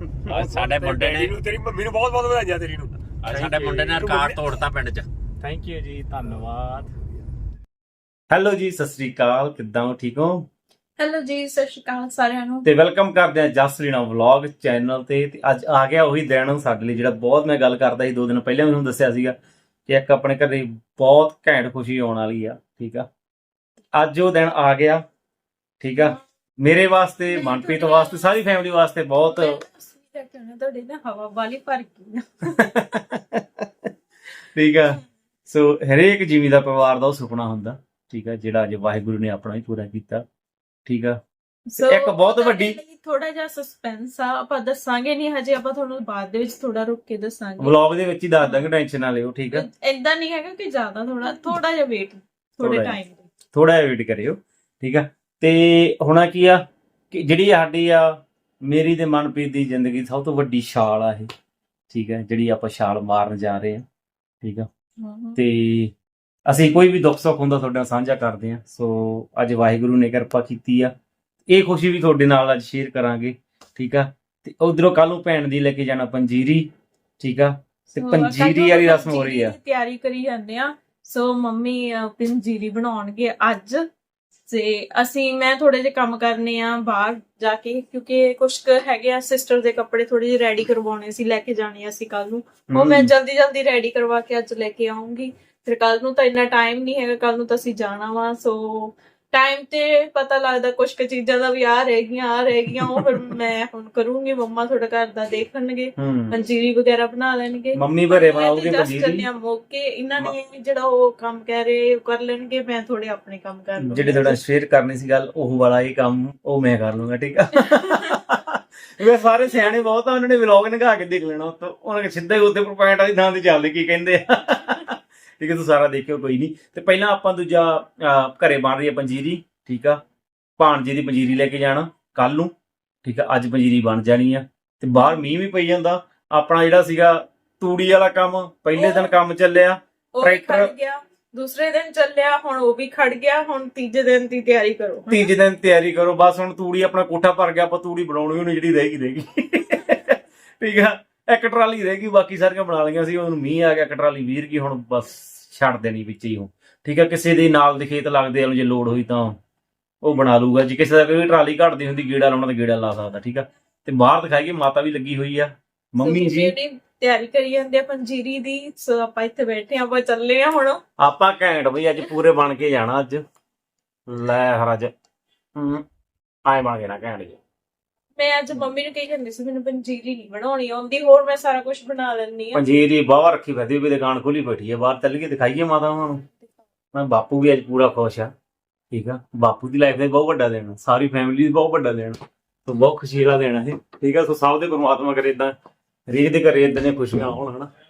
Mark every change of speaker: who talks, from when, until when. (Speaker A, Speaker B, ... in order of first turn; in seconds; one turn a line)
Speaker A: 0.3-1.3
Speaker B: 0.3-3.1
Speaker A: 3.1-5.1
Speaker C: 3.3-4.0
Speaker B: 4.0-4.3
Speaker C: 5.4-6.9
Speaker C: 8.3-10.5
Speaker D: 11.0-12.7
Speaker C: 12.6-19.4
Speaker C: 19.9-23.1
Speaker C: 23.9-25.0
Speaker C: 25.8-29.6
Speaker D: 27.3-28.4
Speaker D: 29.3-32.8
Speaker C: 32.6-33.7
Speaker C: 34.5-40.2
Speaker C: 40.9-41.2
Speaker D: 41.7-47.8
Speaker C: 41.8-42.8
Speaker C: 47.6-49.7
Speaker D: 49.5-53.2
Speaker C: 52.6-53.0
Speaker C: 53.5-58.1
Speaker C: 58.6-61.3
Speaker C: 61.9-63.8
Speaker C: 64.4-64.7
Speaker D: 65.0-65.4
Speaker C: 65.3-65.9
Speaker C: 66.5-70.9
Speaker C: 71.5-79.5
Speaker D: 78.0-83.8
Speaker D: 84.5-114.4
Speaker C: 92.7-93.1
Speaker C: 106.0-106.4
Speaker C: 107.7-109.3
Speaker C: 113.8-130.0
Speaker C: 130.6-132.5
Speaker C: 133.0-140.7
Speaker D: 138.7-139.1
Speaker D: 140.2-145.3
Speaker C: 145.1-159.4
Speaker C: 160.0-166.5
Speaker D: 166.0-170.8
Speaker C: 171.0-173.2
Speaker C: 174.1-174.9
Speaker C: 175.6-175.8
Speaker C: 176.5-177.4
Speaker D: 178.2-182.6
Speaker C: 182.5-186.2
Speaker C: 186.9-188.3
Speaker C: 188.9-195.5
Speaker C: 196.1-197.7